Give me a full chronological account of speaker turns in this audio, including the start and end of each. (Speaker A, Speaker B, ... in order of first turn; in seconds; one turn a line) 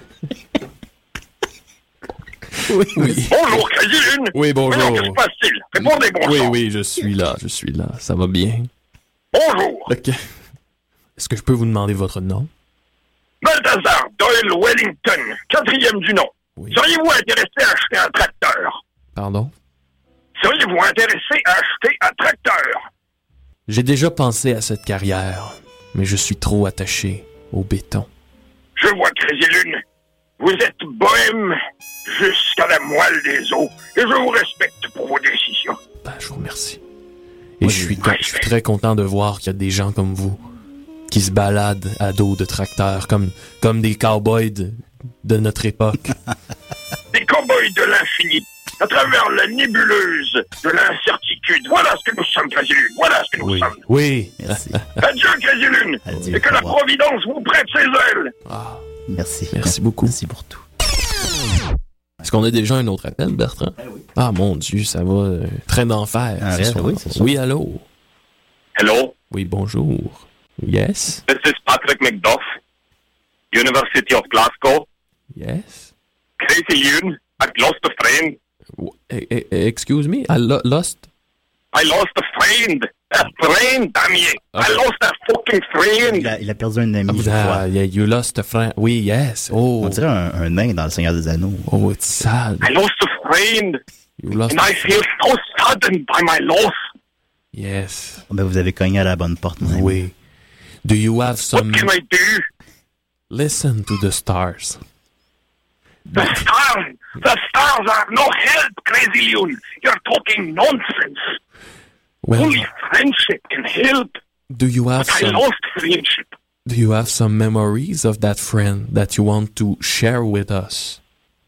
Speaker A: 2.6-3.6
Speaker B: 3.2-6.6
Speaker A: 4.3-5.2
Speaker A: 5.8-8.7
Speaker B: 9.3-9.9
Speaker A: 9.9-10.2
Speaker A: 11.2-12.5
Speaker B: 13.4-18.8
Speaker A: 19.1-19.5
Speaker B: 20.4-22.8
Speaker A: 23.7-28.1
Speaker B: 28.8-29.8
Speaker B: 30.4-35.8
Speaker A: 36.0-36.8
Speaker A: 37.6-40.4
Speaker C: 37.6-38.1
Speaker B: 38.0-38.5
Speaker A: 41.1-46.1
Speaker B: 47.1-53.8
Speaker A: 53.4-54.8
Speaker C: 54.4-54.8
Speaker B: 55.0-58.3
Speaker C: 56.1-56.8
Speaker A: 58.5-58.8
Speaker C: 59.1-60.6
Speaker A: 59.5-60.1
Speaker A: 62.2-67.8
Speaker C: 66.4-67.3
Speaker B: 68.8-69.1
Speaker A: 69.3-71.2
Speaker B: 71.3-72.4
Speaker B: 73.5-74.8
Speaker A: 75.3-75.9
Speaker B: 76.4-78.3
Speaker A: 78.8-81.0
Speaker B: 81.7-86.3
Speaker A: 84.5-84.8
Speaker C: 86.0-87.6
Speaker A: 87.1-90.0
Speaker C: 89.7-91.7
Speaker A: 91.7-92.7
Speaker B: 92.6-93.8
Speaker A: 94.2-94.7
Speaker B: 94.5-96.8
Speaker A: 97.5-98.2
Speaker C: 98.3-100.0
Speaker A: 99.6-100.1
Speaker A: 100.8-101.9
Speaker B: 101.5-102.5
Speaker A: 103.3-104.8
Speaker A: 106.1-106.4
Speaker B: 106.1-111.3
Speaker A: 112.2-112.6
Speaker B: 112.3-114.2
Speaker A: 114.5-115.4
Speaker B: 115.0-116.3
Speaker A: 116.7-121.0